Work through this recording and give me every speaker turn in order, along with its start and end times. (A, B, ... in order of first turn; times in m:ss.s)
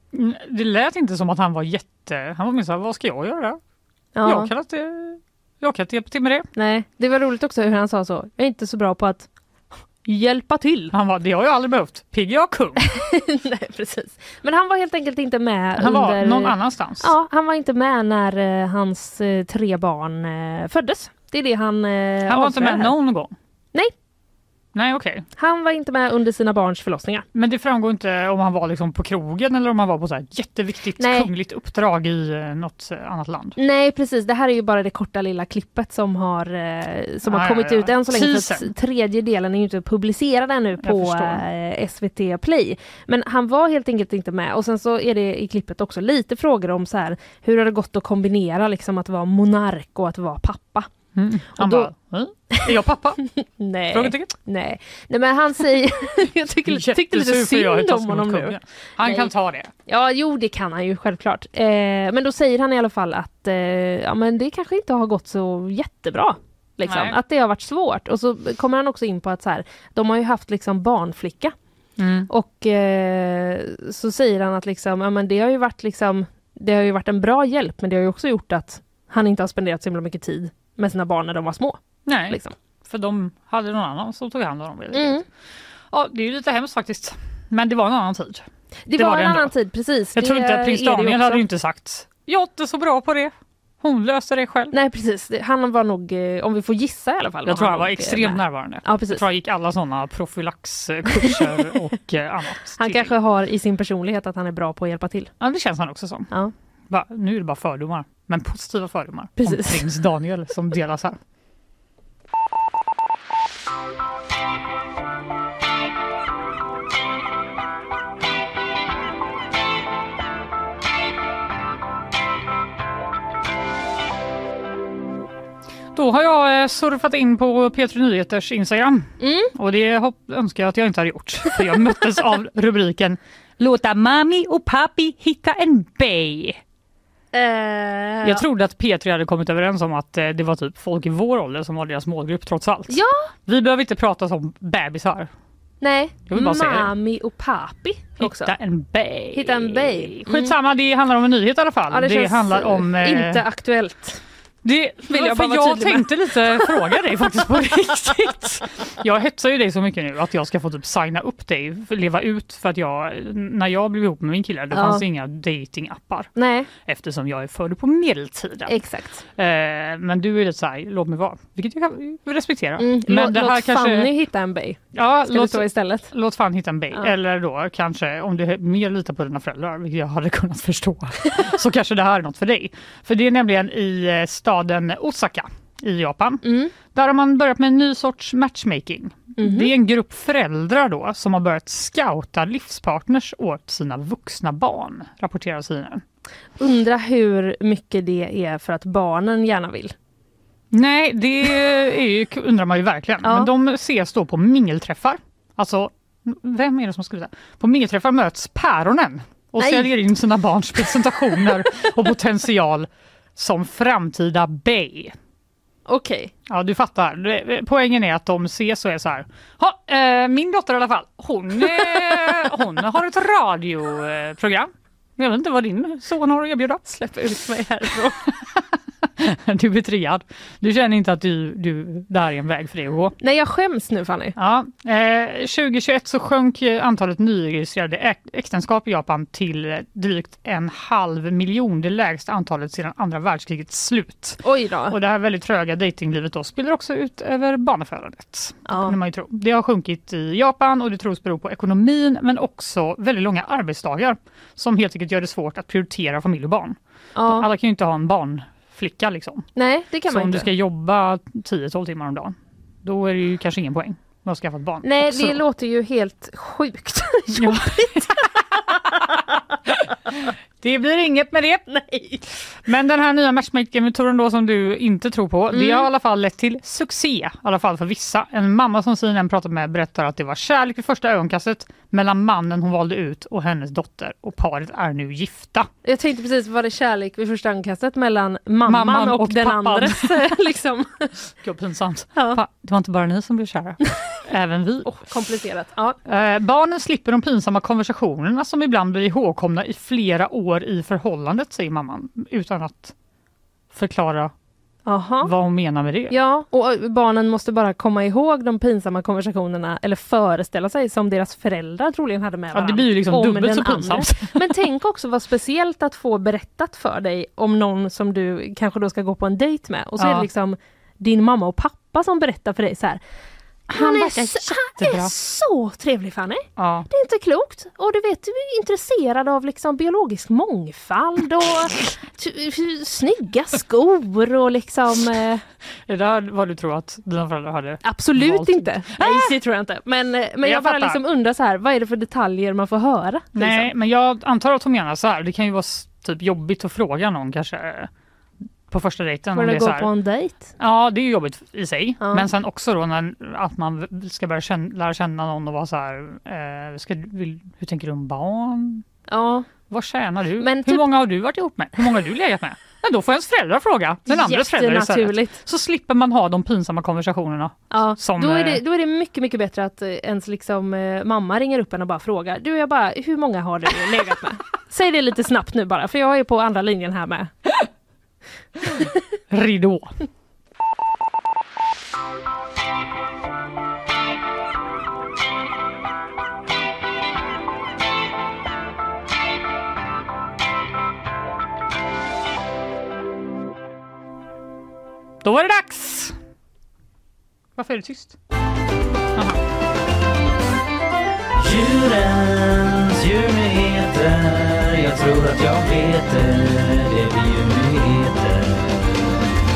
0:00.1-0:03.6 A
0:04.2-0:04.5 B
0:04.2-0:06.5 A
0:06.6-0:09.3 B
0:10.1-0:10.9 B
0:10.9-0:12.8 A
0:12.8-0:22.9 B
0:15.8-0:17.1 A
0:22.3-0:23.3 A
0:24.8-0:25.2 A
0:25.4-0:27.2 B
0:27.4-0:33.6 A
0:31.0-0:31.3 B
0:33.6-0:50.9 B
0:37.3-0:38.7 A
0:40.8-0:41.4 A
0:51.2-0:53.2 A
0:51.6-0:51.9 B
0:53.6-0:59.3 B
0:53.9-0:54.3 A
0:56.7-0:59.7 A
0:59.9-1:11.6 B
1:06.8-1:07.2 A
1:12.0-1:12.3 A
1:12.3-1:22.5 B
1:22.1-1:25.3 A
1:24.9-1:25.2 B
1:25.9-1:29.5 A
1:28.9-1:31.4 B
1:30.2-1:34.7 A
1:34.7-1:39.2 B
1:37.4-1:43.1 A
1:41.2-1:41.5 B
1:42.8-1:45.3 B
1:45.4-1:46.3 A
1:46.9-1:51.2 A
1:49.4-1:49.8 B
2:06.0-2:16.6 A
2:09.2-2:09.5 B
2:17.3-2:18.4 B
2:18.2-2:25.3 A
2:22.9-2:23.3 B
2:25.8-2:28.5 B
2:26.3-2:26.9 A
2:28.2-2:33.4 A
2:29.3-2:30.5 B
2:31.9-2:34.2 B
2:34.6-2:46.3 A
2:35.1-2:36.8 B
2:44.7-2:45.0 B
2:46.4-2:46.7 B
2:46.8-2:48.8 A
2:48.7-2:49.2 B
2:49.4-2:54.1 A
2:52.8-2:56.1 B
2:54.9-3:16.0 A
3:06.4-3:06.7 B
3:09.4-3:09.7 B
3:16.6-3:19.9 B
3:20.7-3:35.1 A
3:23.2-3:23.5 B
3:29.6-3:29.9 B
3:35.9-3:36.3 B
3:36.5-3:46.8 A
3:46.9-3:48.2 B
3:49.2-3:53.2 A
3:53.2-3:54.3 B
3:54.4-4:19.5 A
4:04.4-4:05.0 B
4:08.7-4:09.0 B
4:17.2-4:17.5 B
4:19.6-4:20.5 B
4:20.1-4:25.4 A
4:24.8-4:29.4 B
4:27.3-4:28.2 A
4:30.2-4:31.7 A
4:31.7-4:32.2 B
4:32.6-4:45.7 A
4:35.5-4:35.9 B
4:45.8-4:51.1 B
4:48.7-4:50.3 A
4:51.4-4:55.0 A
4:54.8-4:56.0 B
4:56.1-5:02.9 A
5:03.7-5:04.3 A
5:04.9-5:05.3 B
5:05.2-5:06.2 A
5:06.1-5:23.0 B
5:12.5-5:14.6 A
5:20.0-5:20.3 A
5:23.7-5:35.4 B
5:23.7-5:25.1 A
5:26.6-5:26.9 A
5:35.9-5:39.4 A
5:37.8-5:43.7 B
5:40.4-5:41.0 A
5:43.4-5:47.9 A
5:48.7-5:49.9 A
5:49.3-5:50.5 B
5:50.6-5:58.8 A
5:52.0-5:52.3 B
5:59.1-5:59.5 B
5:59.7-6:08.6 A
6:00.4-6:00.9 B
6:04.1-6:05.4 B
6:07.7-6:17.6 B
6:19.3-6:20.0 A
6:35.2-6:36.2 A
6:37.6-6:38.2 A
6:41.4-6:48.9 C